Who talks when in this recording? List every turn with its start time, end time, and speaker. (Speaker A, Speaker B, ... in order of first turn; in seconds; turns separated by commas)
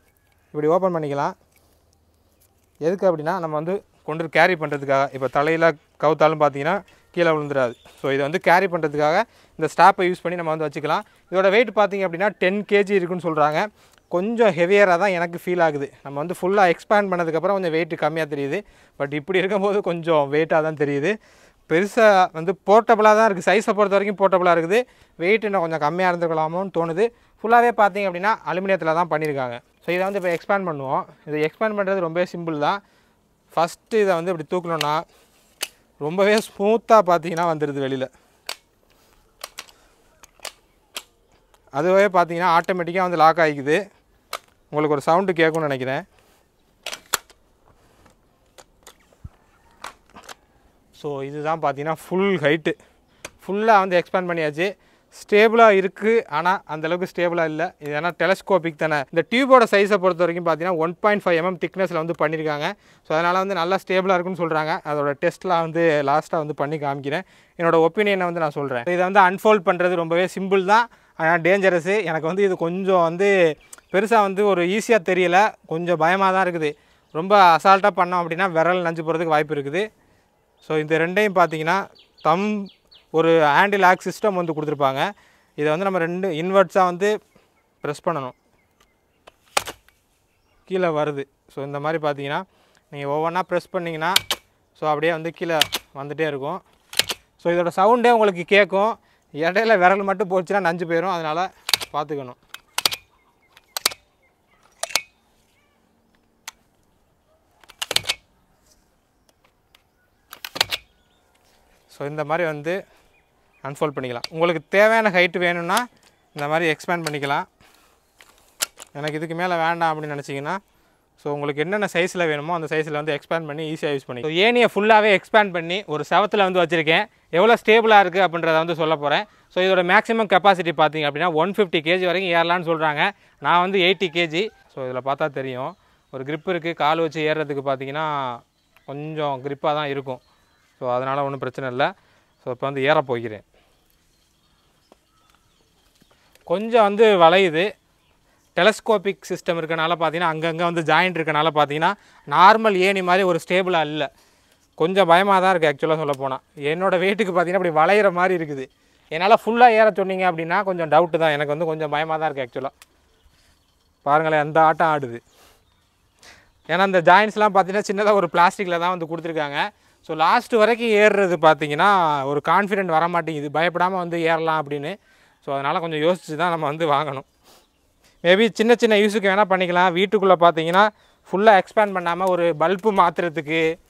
Speaker A: 0.5-1.3, Speaker A: 2.8-21.2, Speaker A: 21.7-32.8, Speaker A: 33.5-35.0, Speaker A: 36.0-38.1, Speaker A: 41.8-43.8, Speaker A: 44.7-46.0, Speaker A: 51.0-52.8, Speaker A: 53.4-73.3, Speaker A: 73.9-79.9, Speaker A: 80.6-85.0, Speaker A: 85.6-87.1, Speaker A: 87.8-88.3, Speaker A: 90.7-94.2, Speaker A: 94.8-96.6, Speaker A: 97.4-102.4, Speaker A: 111.9-112.8, Speaker A: 113.6-115.8, Speaker A: 116.4-117.5, Speaker A: 119.0-120.6, Speaker A: 121.2-140.2, Speaker A: 140.8-141.9, Speaker A: 142.4-143.4, Speaker A: 146.5-147.7, Speaker A: 148.6-154.1, Speaker A: 154.8-162.7, Speaker A: 164.0-165.2, Speaker A: 166.7-177.3, Speaker A: 178.2-183.7